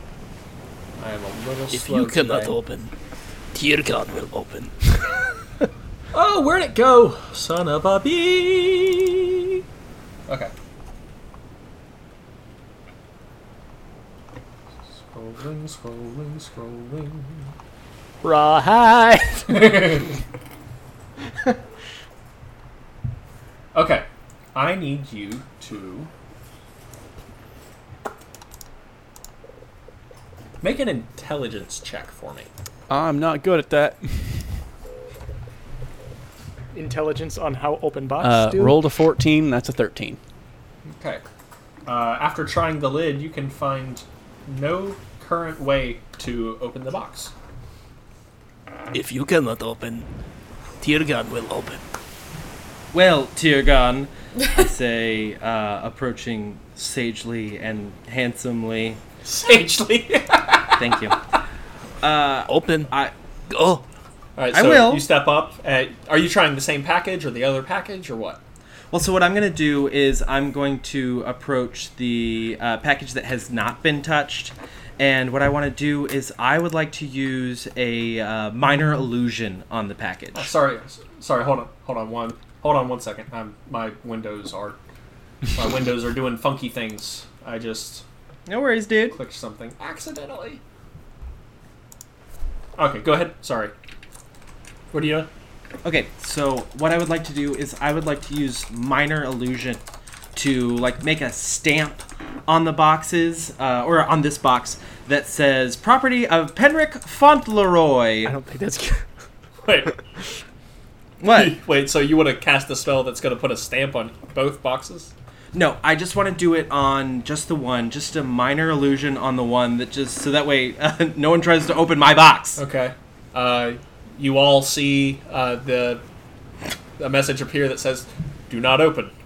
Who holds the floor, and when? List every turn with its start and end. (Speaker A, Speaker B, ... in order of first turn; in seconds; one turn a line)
Speaker A: 1.0-2.6
Speaker B: 1.7-2.9
Speaker B: 3.5-4.7
Speaker A: 6.1-9.5
Speaker A: 15.0-17.5
Speaker C: 18.2-19.4
Speaker A: 19.5-20.1
Speaker A: 23.7-26.1
Speaker A: 30.6-32.5
Speaker D: 32.9-34.4
Speaker C: 36.7-38.8
Speaker D: 38.2-40.2
Speaker A: 40.9-41.2
Speaker A: 41.9-47.3
Speaker B: 48.9-50.1
Speaker B: 50.8-51.8
Speaker E: 52.9-59.0
Speaker A: 59.2-60.8
Speaker E: 60.8-61.2
Speaker E: 62.0-63.1
Speaker B: 62.5-62.9
Speaker B: 63.5-63.8
Speaker A: 64.4-68.4
Speaker E: 64.5-65.0
Speaker E: 68.9-80.5
Speaker A: 80.3-84.8
Speaker A: 85.5-88.0
Speaker E: 88.5-89.2
Speaker A: 89.1-90.6
Speaker A: 92.8-93.7
Speaker A: 94.9-95.3
Speaker E: 95.8-99.8
Speaker E: 100.3-108.3
Speaker C: 108.3-109.0
Speaker A: 109.6-110.0
Speaker E: 111.2-111.6
Speaker A: 111.3-115.1
Speaker E: 115.5-122.6
Speaker A: 122.6-126.0
Speaker A: 127.0-129.1